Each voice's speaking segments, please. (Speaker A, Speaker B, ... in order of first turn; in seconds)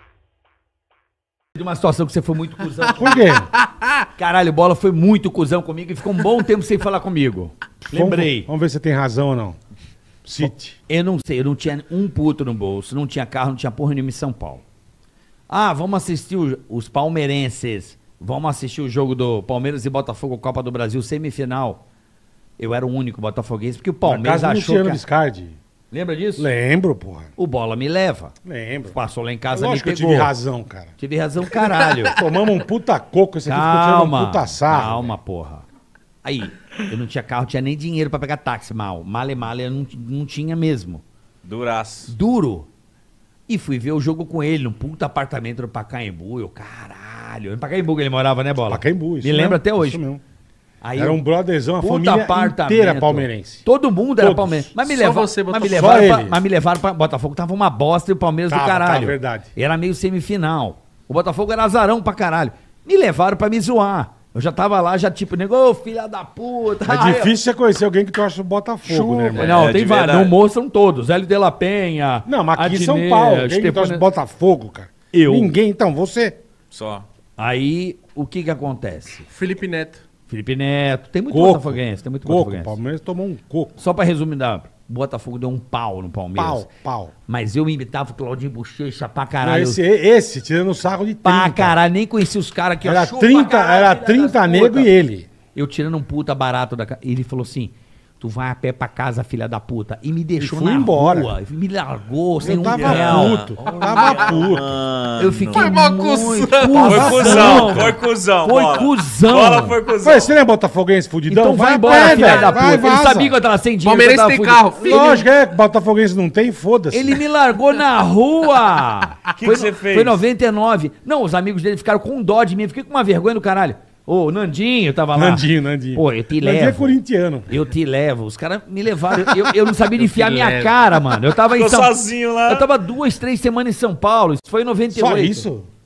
Speaker A: 1.5-3.4, 4.2-8.5, 10.4-14.6, 15.5-21.8, 22.6-25.0, 25.9-26.5, 27.4-28.3, 28.9-30.3, 31.0-32.2, 33.5-35.6, 36.2-41.0, 42.1-42.7, 43.5-50.0, 50.8-51.2, 51.8-67.3, 68.8-74.0, 75.1-75.5, 77.4-79.3, 80.3-82.8, 83.8-86.7, 87.2-89.8, 91.2-94.9, 95.5-104.5, 105.2-109.8, 111.3-115.2, 116.9-127.0, 127.5-135.4
Speaker B: 3.0-3.5, 7.9-9.6, 10.2-10.8, 24.0-25.6, 26.4-27.3, 28.4-29.0, 29.5-30.9, 32.1-35.1, 48.7-50.2, 50.9-53.6, 54.2-54.7, 55.6-56.4, 58.5-59.5, 66.8-69.6, 72.2-76.4, 81.3-83.8, 86.3-87.1, 89.4-91.8, 92.8-95.3, 100.4-101.3, 102.4-104.8, 106.7-107.9, 110.0-113.4, 114.8-117.2, 125.1-127.5, 134.9-135.7
Speaker C: 41.4-42.1, 69.3-70.3, 76.7-77.0, 102.6-105.9, 106.8-110.3, 119.3-120.2, 131.3-132.7
Speaker D: 54.8-56.1, 79.3-80.0, 103.9-104.4, 105.5-107.6, 111.8-112.9, 113.8-115.2, 129.9-130.8